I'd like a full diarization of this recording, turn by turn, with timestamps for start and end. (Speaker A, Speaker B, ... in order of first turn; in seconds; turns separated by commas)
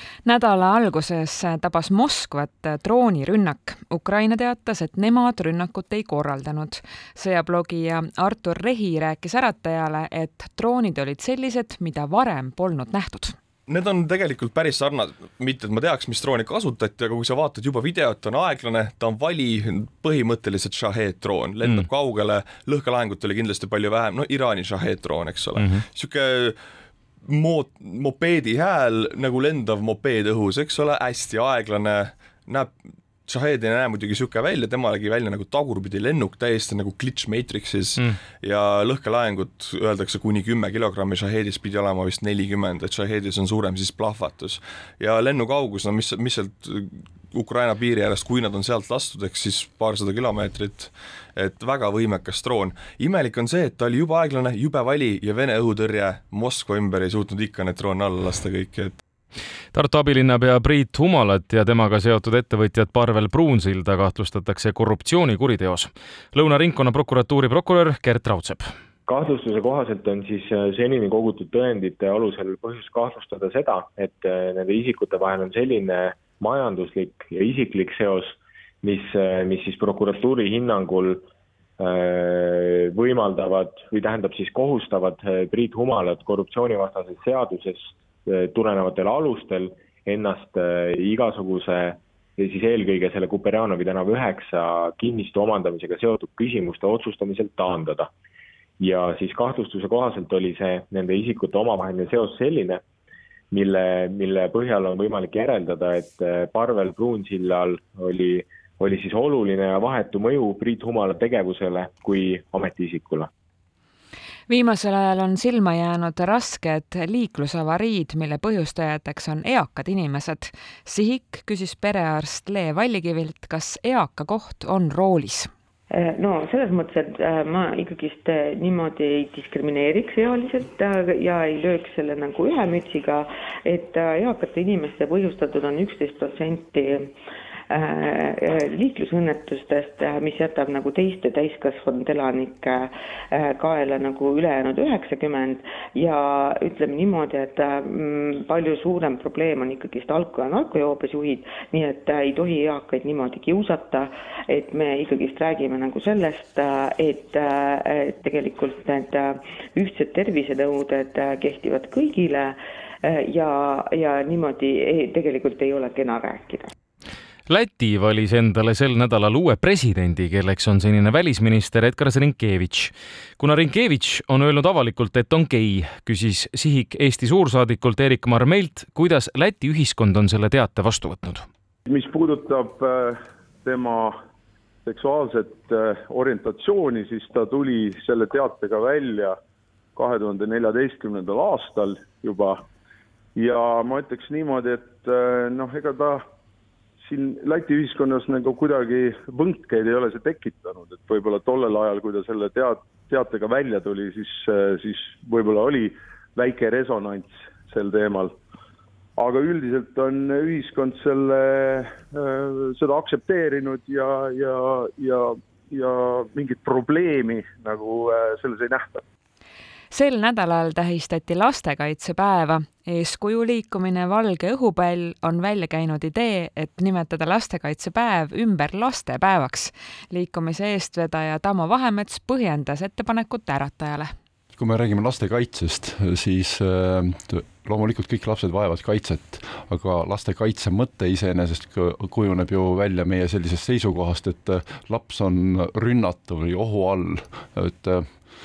Speaker A: 0.2-13.4, Speaker B: 13.7-26.6, Speaker C: 21.6-21.9, Speaker C: 25.6-25.8, Speaker B: 27.3-32.8, Speaker B: 33.3-59.0, Speaker C: 59.7-68.7, Speaker D: 69.1-81.3, Speaker D: 81.8-98.1, Speaker D: 98.8-102.8, Speaker D: 103.5-113.3, Speaker A: 114.5-125.5, Speaker E: 125.9-137.2, Speaker E: 137.7-166.7, Speaker C: 167.5-181.5, Speaker F: 181.9-184.1, Speaker F: 184.9-189.3, Speaker F: 190.0-192.6, Speaker F: 193.4-196.2, Speaker F: 197.1-208.3, Speaker F: 209.2-219.0, Speaker A: 219.9-234.1, Speaker G: 234.6-248.2